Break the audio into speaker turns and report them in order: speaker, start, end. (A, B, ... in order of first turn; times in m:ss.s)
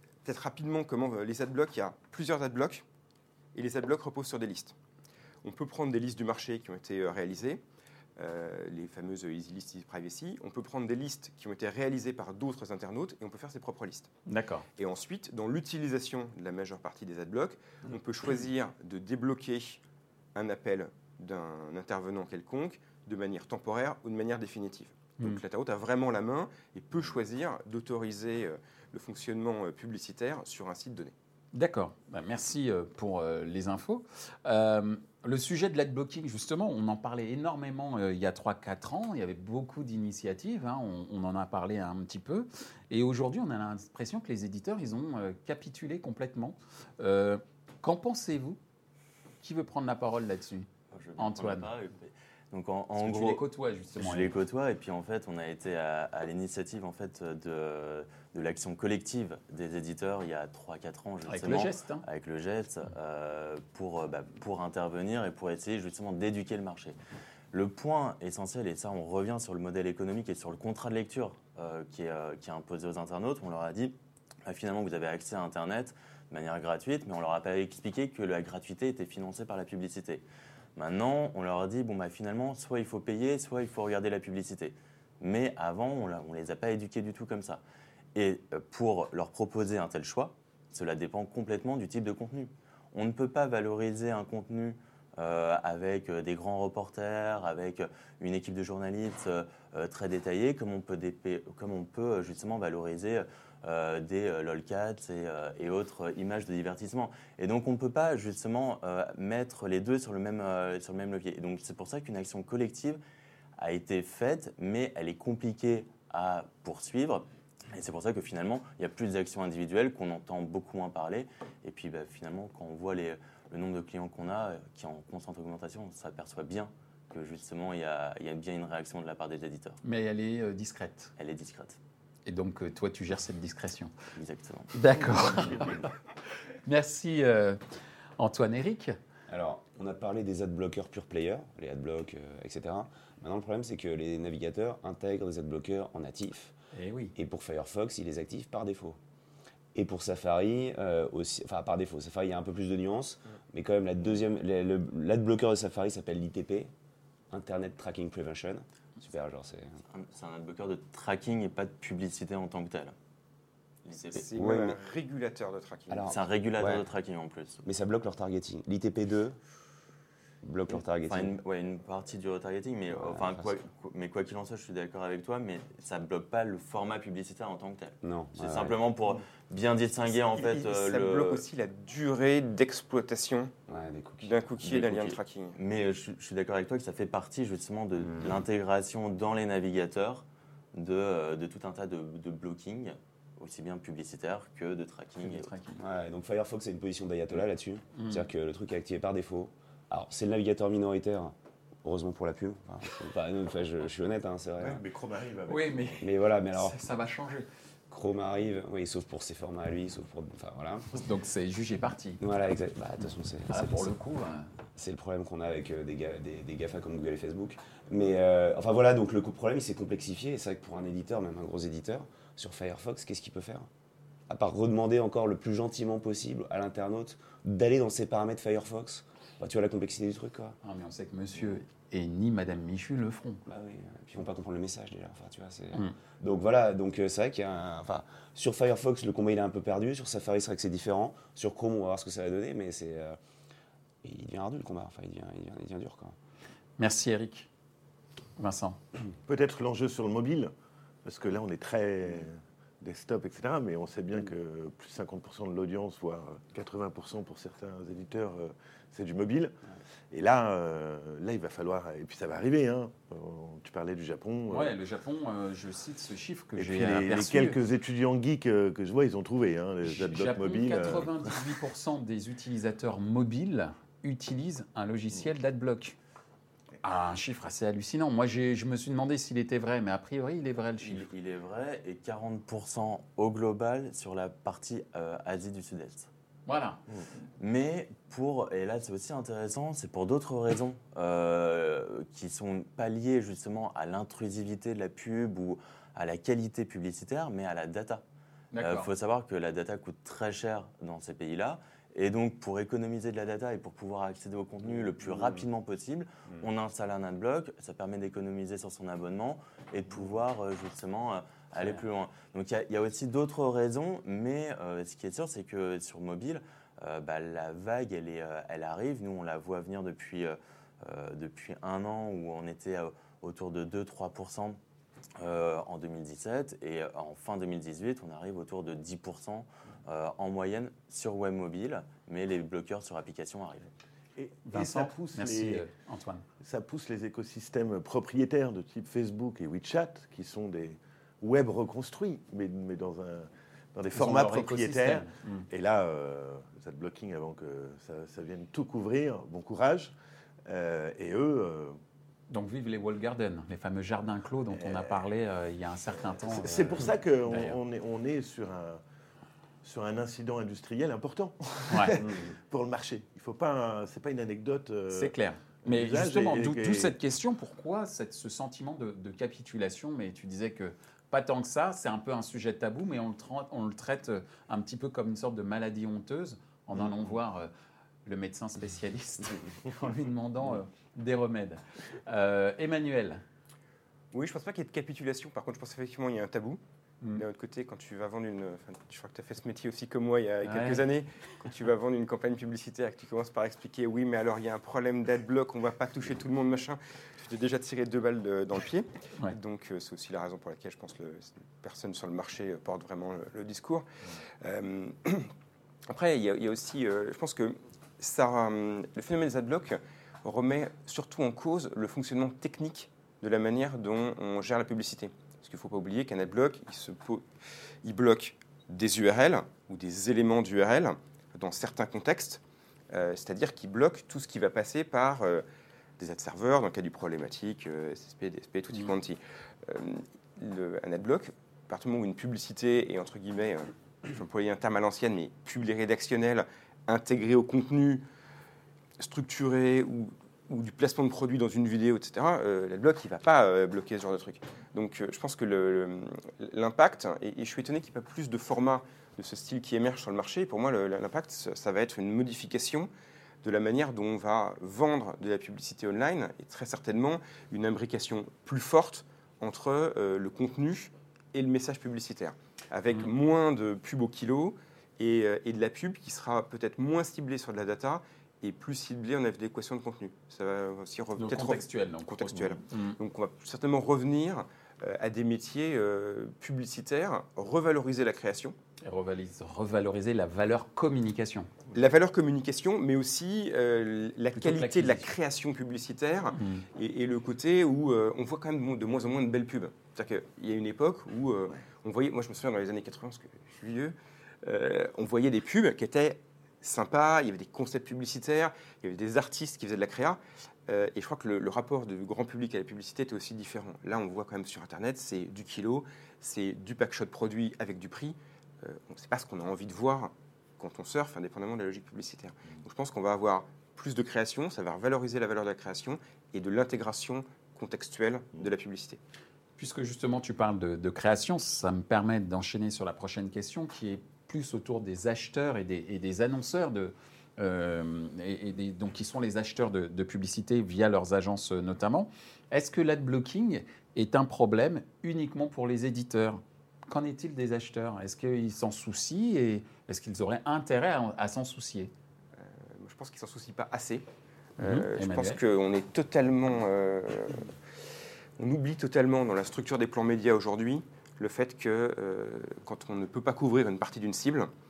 0:00.2-0:02.8 A
0:03.6-0:04.8 A
0:05.4-0:07.6 A
0:08.2-0:14.1 A
0:14.2-0:14.6 B
0:14.8-0:19.8 A
0:20.4-0:31.1 A
0:31.5-0:48.6 B
0:49.4-0:50.7 B
0:50.9-0:53.4 C
0:51.2-0:51.7 B
0:53.0-0:54.4 B
0:54.0-1:07.0 C
1:01.2-1:02.0 B
1:07.5-1:14.0 C
1:14.5-1:20.2 C
1:20.8-1:27.6 C
1:28.1-1:53.0 C
1:53.6-2:09.8 C
2:09.8-2:11.1 B
2:11.2-2:11.8 C
2:12.2-2:13.9 B
2:14.1-2:15.7 C
2:14.7-2:15.9 B
2:16.6-2:17.6 B
2:18.2-2:19.0 B
2:19.3-2:26.5 D
2:26.7-2:27.1 B
2:27.1-2:29.0 D
2:29.8-2:36.7 D
2:37.3-2:39.8 D
2:39.9-2:42.9 C
2:43.8-2:44.3 C
2:44.1-2:46.1 A
2:44.3-2:44.8 D
2:45.9-2:46.9 D
2:46.1-2:47.6 C
2:47.6-2:49.4 D
2:50.4-2:51.3 D
2:51.0-3:01.4 C
2:52.9-2:53.5 D
2:58.0-2:58.8 D
3:00.1-3:03.5 A
3:03.7-3:04.4 D
3:04.2-3:05.6 A
3:04.6-3:15.5 C
3:08.1-3:08.4 D
3:15.2-3:15.8 B
3:15.8-3:24.8 D
3:18.0-3:18.2 B
3:24.6-3:25.9 E
3:25.5-3:27.5 B
3:26.0-3:26.8 D
3:27.9-3:31.0 D
3:31.0-3:32.2 B
3:32.2-3:33.9 D
3:33.5-3:34.5 B
3:34.8-3:43.7 D
3:44.3-3:50.6 D
3:50.6-3:53.4 B
3:53.5-4:03.2 D
4:04.0-4:06.2 D
4:06.8-4:07.5 B
4:08.4-4:08.8 B
4:09.2-4:10.5 E
4:11.0-4:19.5 E
4:20.1-4:24.8 E
4:24.5-4:27.6 B
4:26.6-4:31.4 E
4:29.8-4:36.0 B
4:36.8-4:41.1 B
4:40.8-4:46.1 C
4:46.5-4:46.8 B
4:47.4-4:58.0 C
4:58.5-4:58.9 B
4:58.6-5:24.6 C
5:25.2-5:33.7 C
5:34.2-5:35.6 E
5:34.4-5:36.2 B
5:36.4-5:49.9 E
5:43.9-5:45.5 B
5:50.5-5:51.8 E
5:52.3-5:57.6 B
5:54.5-5:54.9 E
5:56.2-5:58.8 E
5:59.6-6:05.1 E
6:01.7-6:02.0 B
6:04.9-6:17.5 B
6:05.6-6:07.0 E
6:18.0-6:23.2 B
6:24.1-6:26.6 A
6:27.2-6:43.9 A
6:30.4-6:30.9 B
6:44.4-6:45.3 A
6:45.9-6:57.2 A
6:57.8-7:05.4 A
7:06.0-7:18.0 A
7:19.0-7:32.9 A
7:33.4-7:58.5 A
7:51.2-7:53.0 B
7:58.8-8:01.5 B
8:01.7-8:39.0 A
8:04.4-8:05.1 B
8:06.4-8:06.6 B
8:39.6-9:01.9 B
9:02.4-9:04.0 A
9:04.6-9:05.4 B
9:04.6-9:07.5 A
9:08.4-9:14.5 A